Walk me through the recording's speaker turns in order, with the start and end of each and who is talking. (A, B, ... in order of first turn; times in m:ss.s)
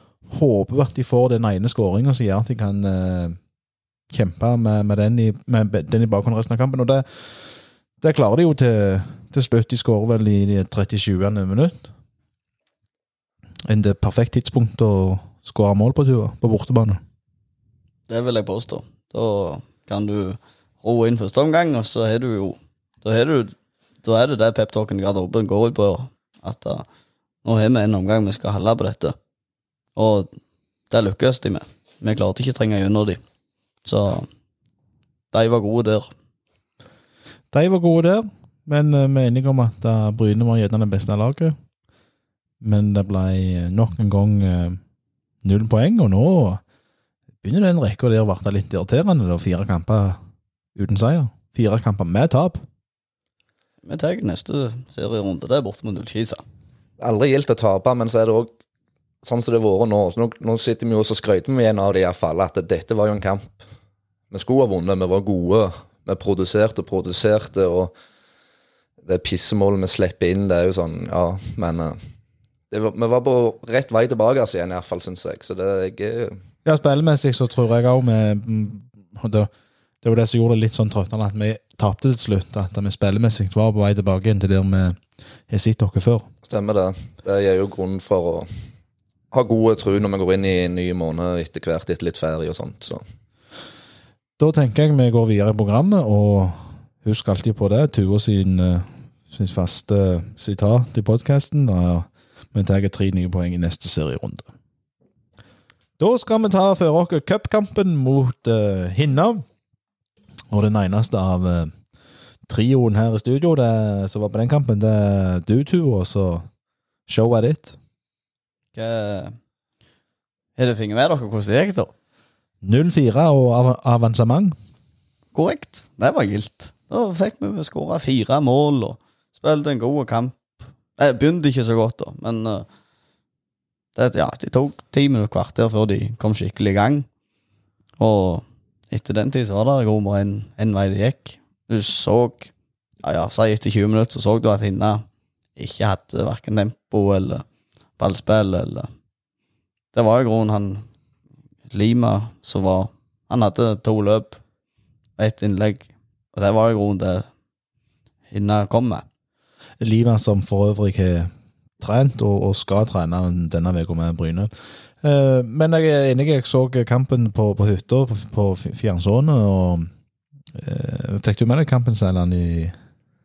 0:00.3-0:03.4 A
0:04.1-0:11.9 A
0:13.6-0:17.0 A
0:18.1-0:26.8 B
0:27.4-0:29.2 B
0:30.0-0:30.3 B
0:30.9-0:33.2 B
0:33.8-0:34.3 B
0:35.3-0:36.1 B
0:37.5-0:41.6 A
0:42.6-0:44.8 A
0:45.4-0:46.6 A
0:47.4-0:50.2 A
0:50.8-0:52.6 A
0:53.8-0:56.4 B
0:57.0-0:58.5 C
0:59.2-1:03.6 C
1:04.3-1:07.9 C
1:09.0-1:12.0 C
1:12.7-1:16.4 C
1:16.6-1:19.5 A
1:20.0-1:26.3 A
1:26.4-1:28.5 C
1:29.3-1:33.0 C
1:34.4-1:44.5 A
1:46.0-1:49.4 A
1:50.5-1:51.7 A
1:52.5-1:56.4 A
1:57.1-1:57.8 A
1:58.7-1:59.4 B
2:00.6-2:01.9 B
2:02.6-2:04.5 A
2:05.3-2:10.4 B
2:11.0-2:12.6 B
2:13.9-2:17.1 B
2:18.0-2:22.5 B
2:23.0-2:25.0 B
2:25.6-2:27.4 B
2:28.0-2:28.9 B
2:29.9-2:30.8 B
2:31.7-2:34.4 B
2:35.2-2:37.3 B
2:38.3-2:39.0 B
2:39.8-2:49.9 A
2:50.5-2:52.7 A